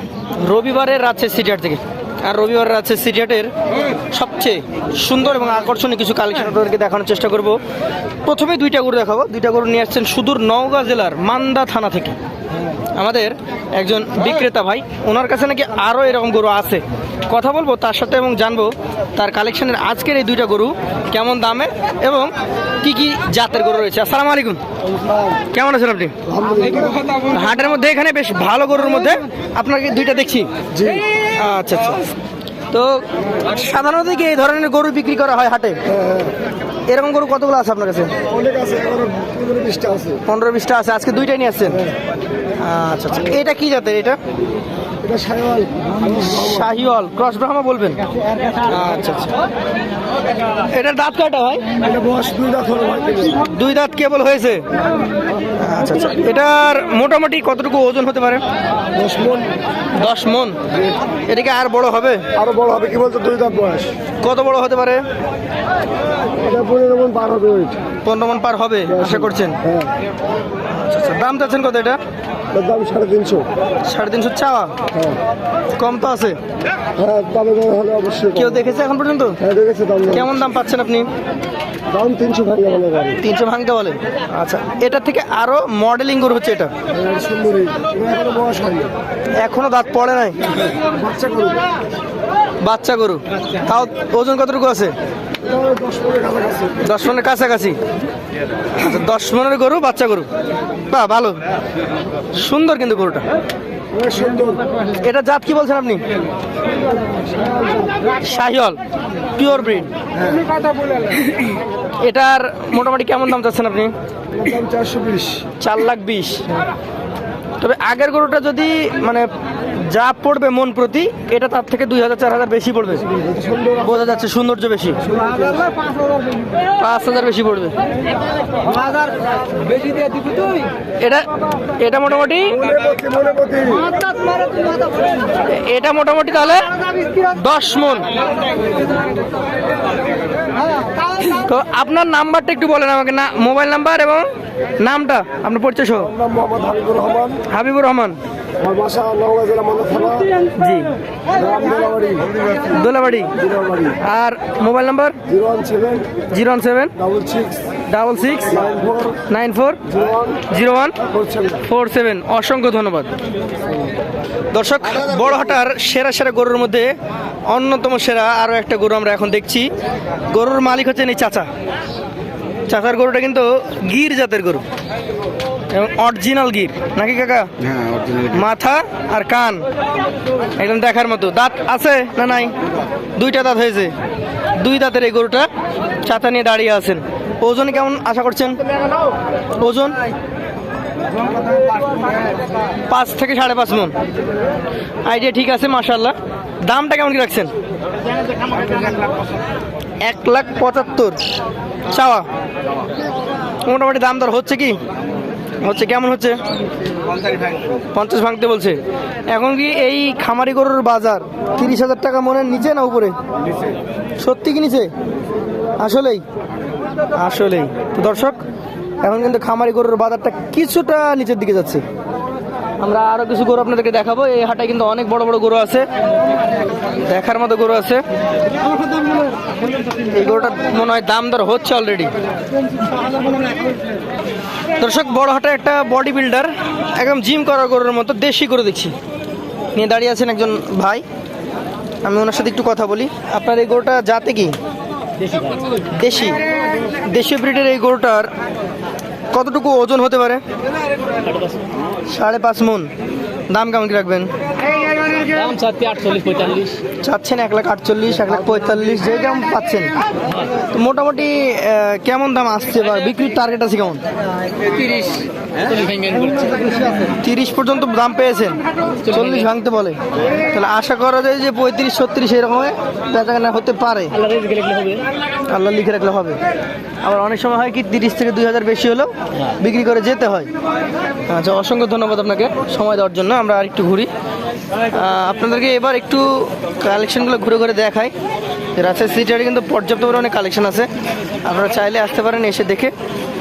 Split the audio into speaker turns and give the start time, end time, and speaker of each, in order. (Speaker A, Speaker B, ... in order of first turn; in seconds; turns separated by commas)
Speaker A: 0.4-7.6, Speaker A: 8.2-12.2, Speaker A: 12.9-24.6, Speaker B: 25.0-25.4, Speaker A: 25.5-26.1, Speaker B: 26.3-27.0, Speaker A: 27.2-30.5, Speaker B: 30.7-31.0, Speaker A: 31.2-32.0, Speaker A: 32.7-35.8, Speaker B: 35.9-36.3, Speaker A: 36.9-38.1, Speaker B: 38.3-40.2, Speaker A: 40.2-41.8, Speaker A: 42.6-44.2, Speaker B: 45.0-46.4, Speaker A: 46.1-48.0, Speaker A: 48.6-49.3, Speaker A: 50.7-51.6, Speaker B: 51.8-53.4, Speaker A: 53.4-54.6, Speaker A: 55.6-58.4, Speaker B: 59.0-59.5, Speaker A: 60.0-60.6, Speaker A: 61.3-62.2, Speaker B: 62.3-63.9, Speaker A: 64.2-65.0, Speaker B: 66.4-67.8, Speaker A: 68.0-69.6, Speaker A: 70.7-72.0, Speaker B: 72.5-73.5, Speaker A: 73.8-74.7, Speaker A: 75.8-76.4, Speaker B: 77.0-78.6, Speaker A: 78.3-79.4, Speaker B: 79.4-80.2, Speaker A: 80.1-81.1, Speaker B: 81.9-83.2, Speaker A: 83.2-86.7, Speaker B: 86.9-88.9, Speaker A: 89.4-90.4, Speaker B: 91.0-91.6, Speaker A: 92.6-94.9, Speaker B: 95.4-96.8, Speaker A: 96.8-97.8, Speaker A: 98.7-100.3, Speaker A: 100.9-101.4, Speaker A: 102.3-103.2, Speaker B: 103.9-104.6, Speaker A: 105.0-106.0, Speaker B: 107.4-107.7, Speaker A: 108.2-108.8, Speaker A: 109.4-109.9, Speaker A: 112.0-113.9, Speaker B: 114.4-115.5, Speaker A: 115.6-116.4, Speaker A: 117.6-123.0, Speaker B: 123.2-123.7, Speaker A: 123.7-125.0, Speaker B: 125.1-125.7, Speaker A: 126.8-127.7, Speaker A: 131.0-132.7, Speaker B: 132.6-134.0, Speaker A: 135.4-138.1, Speaker A: 141.1-144.3, Speaker A: 144.8-146.1, Speaker B: 146.2-147.4, Speaker A: 147.5-148.2, Speaker B: 148.6-150.3, Speaker A: 150.6-150.9, Speaker B: 151.3-152.3, Speaker A: 152.6-153.3, Speaker B: 153.4-153.9, Speaker A: 154.0-155.2, Speaker B: 155.3-156.1, Speaker A: 156.3-156.9, Speaker B: 157.0-157.6, Speaker A: 157.9-159.9, Speaker B: 158.6-159.2, Speaker B: 159.9-160.3, Speaker A: 160.5-161.0, Speaker B: 161.1-161.6, Speaker A: 161.6-163.1, Speaker A: 164.5-166.9, Speaker A: 167.5-169.7, Speaker A: 170.3-171.5, Speaker A: 172.7-174.6, Speaker A: 175.7-177.5, Speaker A: 178.1-179.6, Speaker A: 180.6-182.6, Speaker A: 183.2-183.9, Speaker A: 184.6-185.5, Speaker A: 186.0-188.6, Speaker A: 189.6-190.0, Speaker A: 192.9-193.9, Speaker A: 195.0-197.5, Speaker A: 200.0-201.2, Speaker A: 201.9-202.2, Speaker A: 203.7-204.8, Speaker A: 205.6-206.4, Speaker A: 207.9-213.1, Speaker A: 214.2-214.9, Speaker A: 215.8-216.2, Speaker A: 217.1-218.4, Speaker A: 219.0-221.8, Speaker A: 222.8-225.9, Speaker A: 226.9-228.0, Speaker A: 230.0-232.1, Speaker A: 234.8-238.9, Speaker A: 239.7-241.0, Speaker A: 242.0-244.6, Speaker C: 245.2-245.6, Speaker A: 245.9-246.4, Speaker A: 246.9-248.3, Speaker A: 249.3-250.4, Speaker C: 251.2-251.6, Speaker A: 252.1-252.9, Speaker A: 253.5-254.3, Speaker C: 255.1-256.8, Speaker A: 257.0-259.9, Speaker A: 260.7-264.0, Speaker C: 264.6-267.1, Speaker A: 267.2-274.2, Speaker C: 274.2-275.0, Speaker A: 275.5-276.4, Speaker A: 277.0-280.5, Speaker A: 281.3-284.1, Speaker A: 284.9-288.1, Speaker A: 288.8-290.9, Speaker A: 291.4-292.9